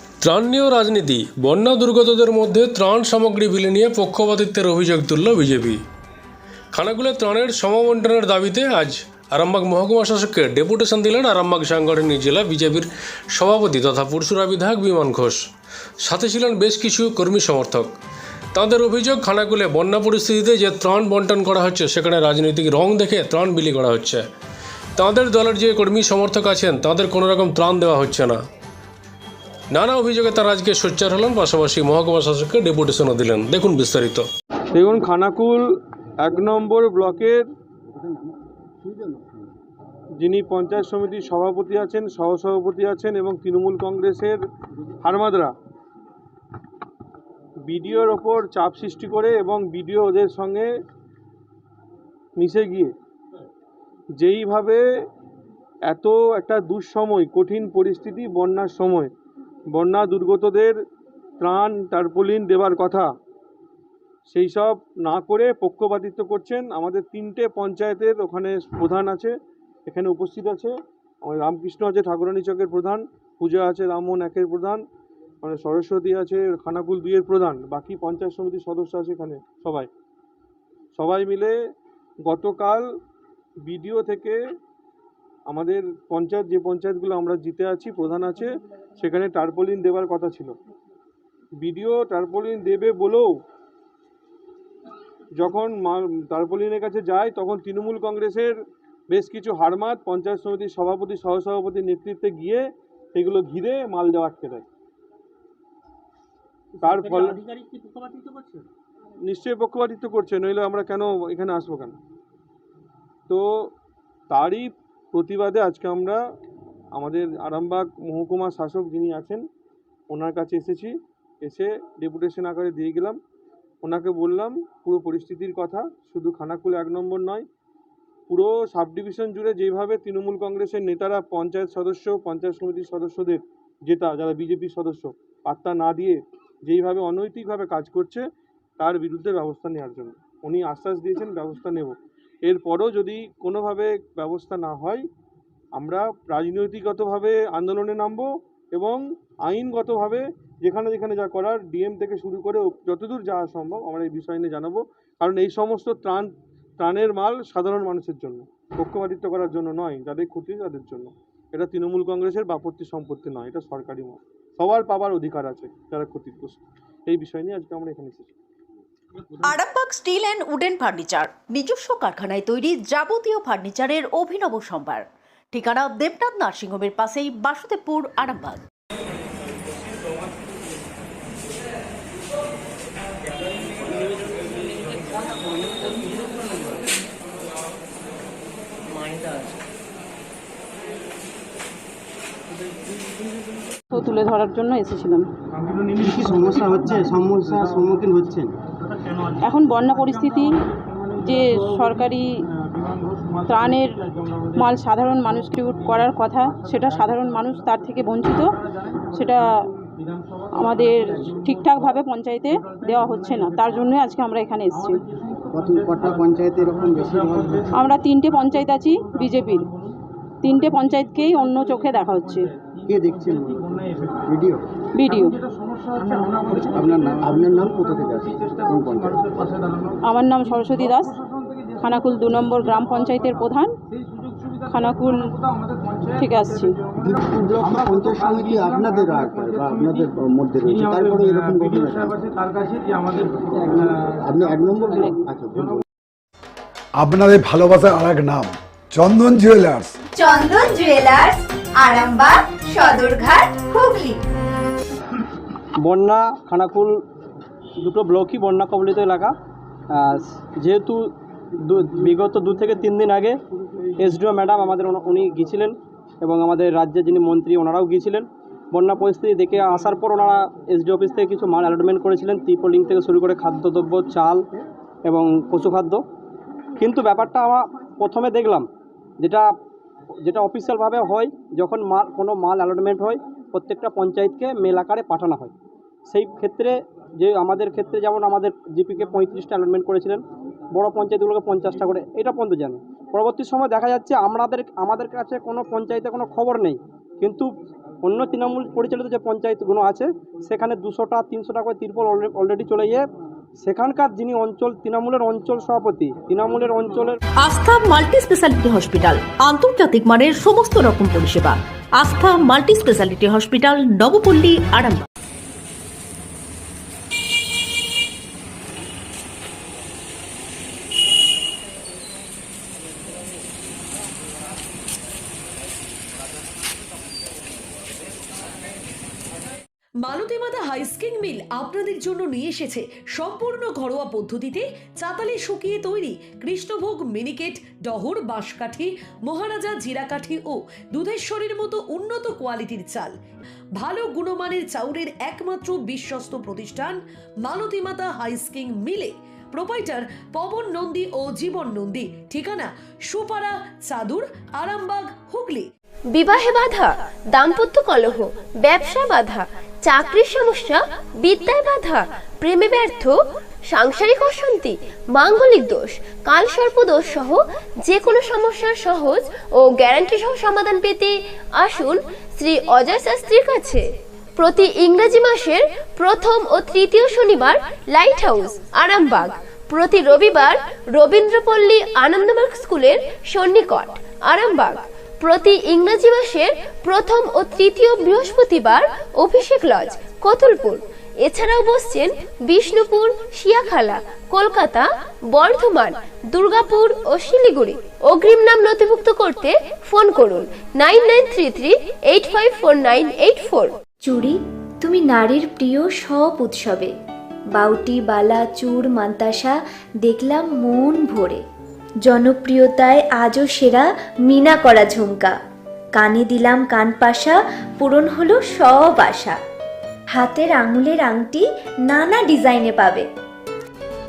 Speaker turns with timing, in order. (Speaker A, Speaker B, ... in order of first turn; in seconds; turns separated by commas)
Speaker A: 0.2-5.8, Speaker A: 6.7-15.4, Speaker A: 16.0-17.9, Speaker A: 18.5-24.2, Speaker A: 25.0-28.4, Speaker A: 29.7-34.2, Speaker B: 34.7-35.7, Speaker B: 36.2-37.4, Speaker C: 37.9-38.3, Speaker C: 38.8-39.4, Speaker B: 40.2-44.4, Speaker B: 45.0-45.5, Speaker B: 47.6-50.7, Speaker B: 52.4-52.9, Speaker B: 54.2-54.8, Speaker B: 55.9-59.1, Speaker B: 59.7-60.8, Speaker B: 61.4-63.1, Speaker B: 64.3-69.3, Speaker B: 69.9-74.8, Speaker B: 75.4-79.9, Speaker B: 81.0-81.5, Speaker B: 82.2-82.8, Speaker B: 83.6-84.4, Speaker B: 85.5-90.5, Speaker B: 91.6-93.3, Speaker B: 95.4-98.5, Speaker B: 99.1-104.6, Speaker B: 106.8-107.6, Speaker B: 109.2-112.0, Speaker B: 113.3-113.7, Speaker B: 114.3-116.2, Speaker B: 116.9-119.4, Speaker B: 120.1-123.2, Speaker B: 123.8-127.5, Speaker B: 128.3-138.2, Speaker B: 138.8-145.1, Speaker B: 145.7-168.3, Speaker D: 169.4-178.6, Speaker E: 193.9-195.3, Speaker C: 196.0-198.5, Speaker E: 199.4-200.6, Speaker E: 201.2-202.4, Speaker E: 203.5-208.6, Speaker E: 209.1-209.7, Speaker E: 210.5-215.0, Speaker C: 215.5-217.7, Speaker E: 217.7-219.7, Speaker E: 220.4-222.6, Speaker C: 222.9-224.6, Speaker E: 224.9-225.4, Speaker C: 226.7-229.5, Speaker E: 230.0-231.2, Speaker E: 231.8-233.8, Speaker E: 234.7-235.3, Speaker E: 236.1-236.8, Speaker C: 237.0-242.2, Speaker C: 243.4-245.8, Speaker E: 244.9-245.2, Speaker F: 247.0-249.9, Speaker G: 250.2-254.2, Speaker H: 255.8-257.0, Speaker H: 257.8-259.3, Speaker H: 259.9-261.1, Speaker H: 261.7-263.4, Speaker H: 264.0-274.4, Speaker H: 275.1-276.0, Speaker H: 276.8-278.6, Speaker H: 280.2-285.5, Speaker H: 286.1-290.2, Speaker H: 290.7-297.5, Speaker H: 298.0-303.0, Speaker H: 303.6-307.2, Speaker D: 307.4-315.0, Speaker I: 330.0-343.1, Speaker I: 343.8-355.7, Speaker J: 356.1-363.1, Speaker J: 363.7-373.8, Speaker J: 374.4-403.7, Speaker K: 404.0-406.9, Speaker K: 407.5-411.4, Speaker K: 412.0-415.3, Speaker K: 415.9-419.4, Speaker K: 420.1-423.1